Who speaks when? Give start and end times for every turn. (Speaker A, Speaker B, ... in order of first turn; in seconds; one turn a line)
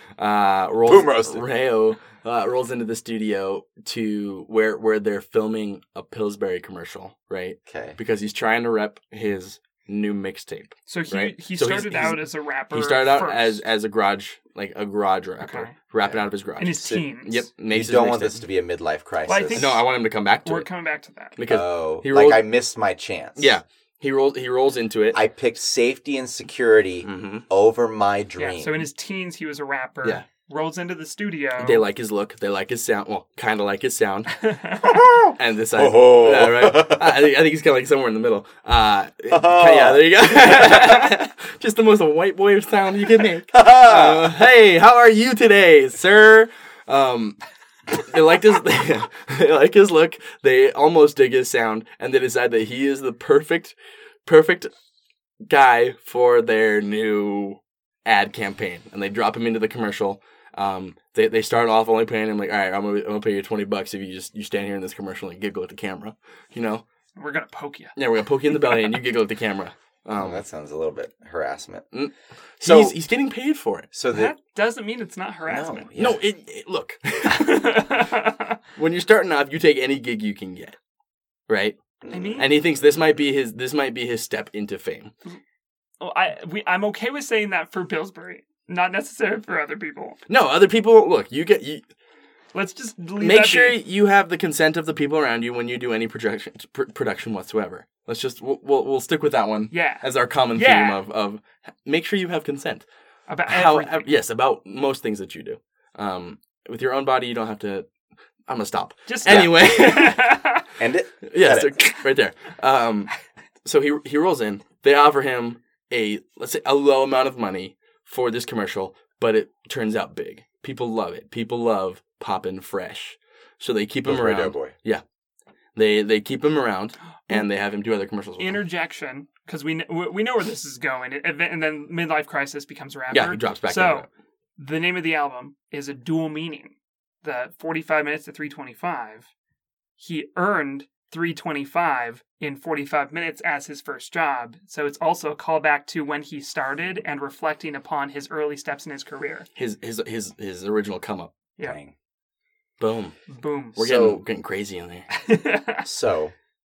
Speaker A: 0.2-18.4
Speaker B: 0.8-1.4
Speaker B: 7.7-8.0
Speaker C: 10.9-13.6
Speaker C: 15.4-15.7
Speaker C: 16.6-17.5
Speaker B: 17.7-19.8
Speaker C: 19.2-19.8
Speaker A: 19.5-20.7
Speaker C: 20.4-21.4
Speaker A: 21.4-22.4
Speaker B: 21.5-23.6
Speaker A: 23.4-25.2
Speaker B: 25.1-28.9
Speaker A: 27.0-27.4
Speaker C: 28.4-31.8
Speaker A: 31.6-34.5
Speaker C: 34.4-35.0
Speaker B: 34.8-37.2
Speaker A: 35.4-47.4
Speaker B: 39.3-41.0
Speaker B: 43.5-44.3
Speaker A: 47.9-53.7
Speaker A: 54.2-54.7
Speaker A: 55.5-66.8
Speaker C: 67.2-68.0
Speaker A: 68.0-70.4
Speaker B: 70.1-71.9
Speaker A: 71.9-73.9
Speaker B: 72.6-73.0
Speaker B: 73.9-74.3
Speaker C: 74.1-75.9
Speaker B: 75.5-76.2
Speaker A: 76.0-78.0
Speaker C: 77.3-78.6
Speaker A: 78.8-80.8
Speaker A: 81.5-81.8
Speaker B: 82.0-82.5
Speaker C: 82.1-82.5
Speaker A: 82.4-85.1
Speaker C: 86.0-90.2
Speaker A: 90.3-91.8
Speaker C: 92.5-93.8
Speaker A: 93.2-102.8
Speaker C: 99.7-101.0
Speaker C: 103.3-104.0
Speaker A: 103.5-107.9
Speaker A: 108.5-110.4
Speaker C: 109.1-110.6
Speaker B: 109.2-109.6
Speaker B: 110.8-111.7
Speaker A: 111.3-113.1
Speaker A: 113.6-125.0
Speaker B: 124.0-124.7
Speaker A: 125.7-128.6
Speaker C: 128.4-134.1
Speaker A: 133.1-134.1
Speaker C: 134.6-139.3
Speaker C: 140.0-149.5
Speaker A: 149.6-151.3
Speaker B: 151.6-151.9
Speaker A: 152.8-153.1
Speaker C: 153.3-153.8
Speaker A: 153.7-155.1
Speaker B: 153.8-154.2
Speaker C: 155.1-155.8
Speaker B: 155.8-156.3